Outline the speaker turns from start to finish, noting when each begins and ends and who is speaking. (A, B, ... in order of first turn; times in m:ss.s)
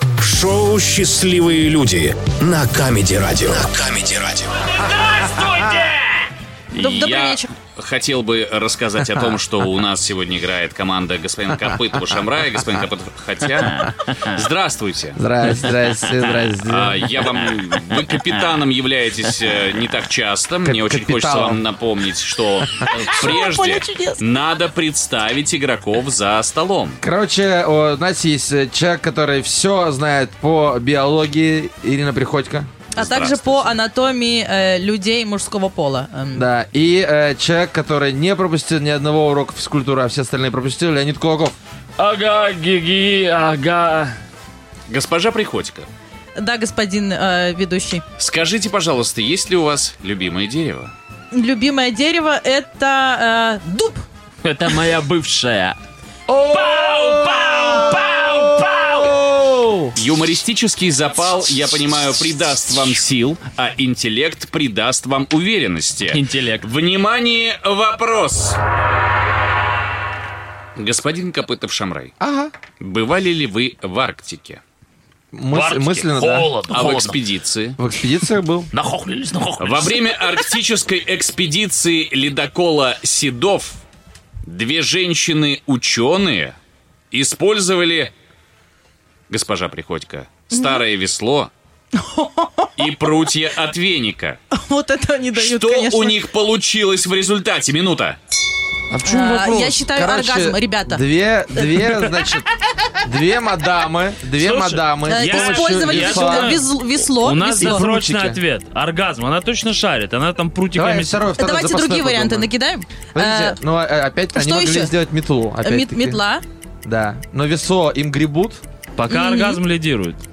0:00.2-0:04.4 A
0:04.6-0:06.2 B
0:06.7-0:15.2 C
0:06.7-0:07.5 D
0:15.2-0:17.1 E
0:16.6-0:27.0 C
0:20.6-0:21.6 E
0:22.9-0:24.2 D
0:27.0-0:32.8 E
0:32.9-0:36.4 D
0:32.9-0:33.7 C
0:36.3-0:41.6 E
0:42.0-0:44.1 B
0:44.9-0:45.9 C
0:46.4-0:48.0 D
0:48.2-0:50.9 C
0:51.3-0:54.0 D
0:54.4-0:55.8 B
0:56.3-0:58.4 E
0:56.5-0:59.2 B
0:59.0-0:59.9 E
0:59.9-1:08.6 C
1:06.1-1:06.6 B
1:10.8-1:12.1 C
1:12.2-1:12.5 E
1:12.8-1:14.6 C
1:15.3-1:16.5 E
1:15.5-1:17.2 B
1:16.7-1:17.8 C
1:17.8-1:18.7 E
1:18.7-1:20.4 B
1:19.6-1:23.8 C
1:24.4-1:26.6 C
1:27.1-1:28.1 C
1:29.3-1:31.5 C
1:31.9-1:32.7 D
1:32.8-1:34.4 C
1:34.5-1:36.2 D
1:35.3-1:38.2 C
1:38.9-1:42.5 E
1:39.0-1:41.0 D
1:41.6-1:42.1 D
1:43.0-1:46.6 E
1:44.4-1:51.2 B
1:45.1-1:47.8 D
1:47.6-1:48.4 E
1:50.7-1:52.5 E
1:51.3-1:53.6 D
1:53.1-1:56.2 E
1:54.3-1:54.9 D
1:55.6-1:56.4 D
1:56.8-1:58.6 E
1:59.0-2:00.2 B
1:59.1-1:59.6 D